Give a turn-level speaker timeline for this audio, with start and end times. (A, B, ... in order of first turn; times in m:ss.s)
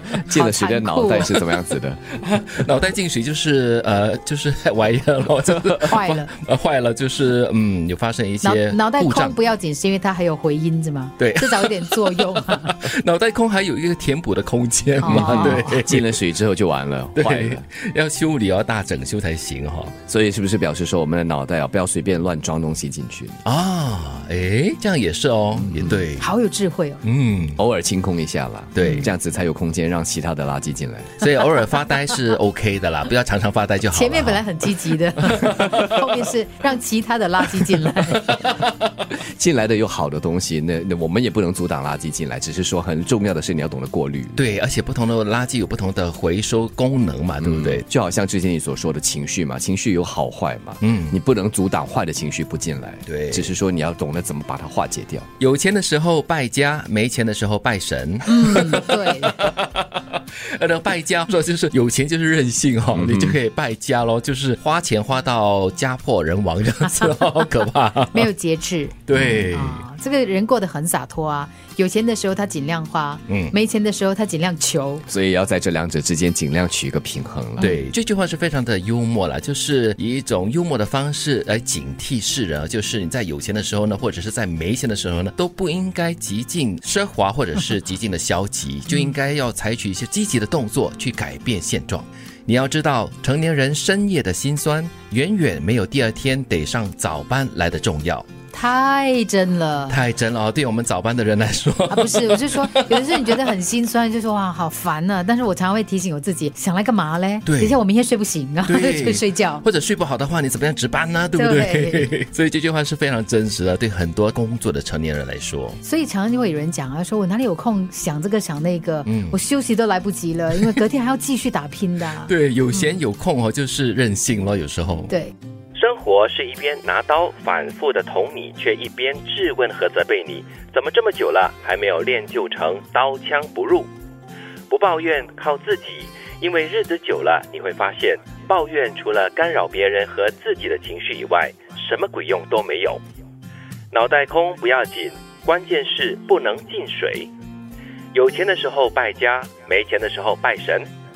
0:00.2-0:01.4 A
0:00.2-0:02.1 B
0:02.1-0:09.4 C
0:05.8-0:06.3 A
0:08.4-0:12.9 A
0:11.2-0:16.1 C
0:15.0-0:15.8 A
0:15.0-0:17.6 B
0:17.2-0:20.0 C
0:20.1-0:23.4 B
0:23.4-0:26.3 C
0:25.6-0:26.0 B
0:26.2-0:27.0 A
0:27.0-0:27.6 C
0:27.6-0:31.2 B
0:28.7-0:29.1 C
0:28.8-0:29.1 A
0:31.2-0:34.4 C
0:33.9-0:38.4 A
0:35.3-0:35.5 C
0:38.3-0:44.4 B
0:44.4-0:47.8 C
0:47.4-0:55.3 B
0:50.8-0:51.2 C
0:53.0-0:53.5 C
0:55.4-1:08.3 C
0:58.3-0:59.4 A
1:02.9-1:03.4 B
1:08.1-1:15.0 A
1:09.1-1:09.9 C
1:13.3-1:13.5 C
1:15.1-1:17.7 B
1:17.6-1:38.3 C
1:38.5-1:40.0 A
1:39.9-1:43.4 C
1:41.9-1:49.6 A
1:47.4-1:47.8 C
1:48.6-1:55.8 C
1:51.4-1:52.1 A
1:55.8-2:02.3 A
1:59.0-1:59.4 C
2:02.2-2:05.1 C
2:05.8-2:13.9 C
2:14.7-2:23.0 C
2:23.9-2:27.3 C
2:28.1-2:30.8 C